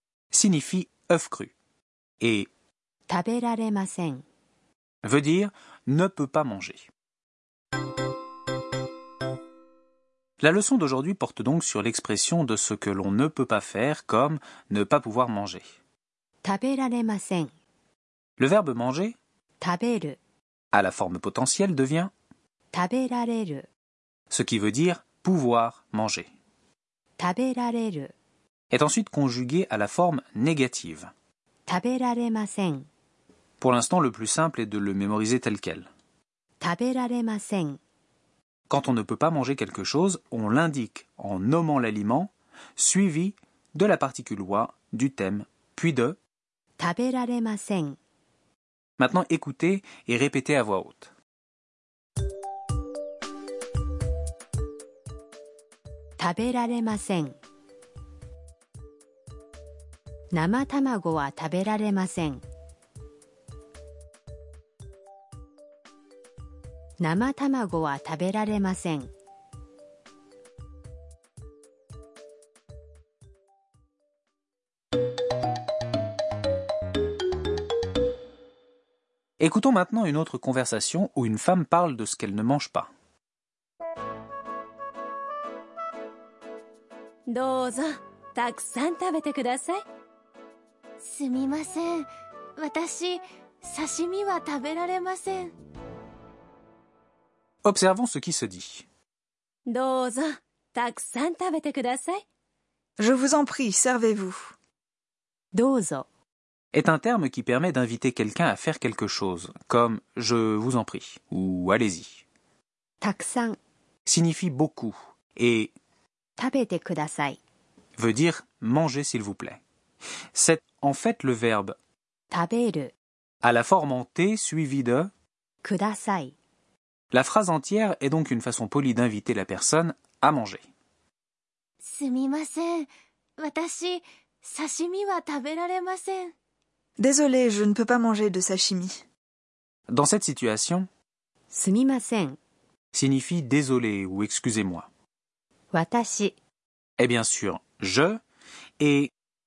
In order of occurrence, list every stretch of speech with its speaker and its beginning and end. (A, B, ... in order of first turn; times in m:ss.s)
0:00.3-0:01.5 A
0:02.2-0:02.5 A
0:03.1-0:04.2 B
0:05.0-0:06.9 A
0:10.4-0:15.6 A
0:16.4-0:17.5 B
0:18.4-0:19.2 A
0:19.6-0:20.2 B
0:20.7-0:22.1 A
0:22.7-0:23.6 B
0:24.3-0:26.3 A
0:27.2-0:28.1 B
0:28.7-0:31.1 A
0:31.6-0:32.8 B
0:33.6-0:35.9 A
0:36.6-0:37.8 B
0:38.7-0:46.2 A
0:46.8-0:48.0 B
0:49.0-0:51.1 A
0:56.2-0:57.4 B
1:00.3-1:02.4 B
1:07.0-1:09.1 B
1:19.4-1:22.9 A
1:27.3-1:29.8 C
1:31.0-1:32.0 D
1:32.6-1:35.5 D
1:37.6-1:38.8 A
1:39.7-1:42.2 C
1:43.0-1:44.5 E
1:45.5-1:46.0 B
1:46.7-1:52.2 A
1:53.0-1:53.6 B
1:54.0-1:55.7 A
1:56.4-1:57.4 B
1:58.0-1:59.6 A
2:00.3-2:01.7 A
2:02.3-2:02.9 B
2:03.4-2:05.1 A
2:05.6-2:06.3 B
2:07.1-2:10.6 A
2:11.8-2:16.3 D
2:17.0-2:19.0 E
2:19.9-2:20.9 A
2:21.5-2:22.4 B
2:22.9-2:24.9 A
2:25.7-2:26.4 B
2:27.0-2:28.2 A
2:28.8-2:29.1 A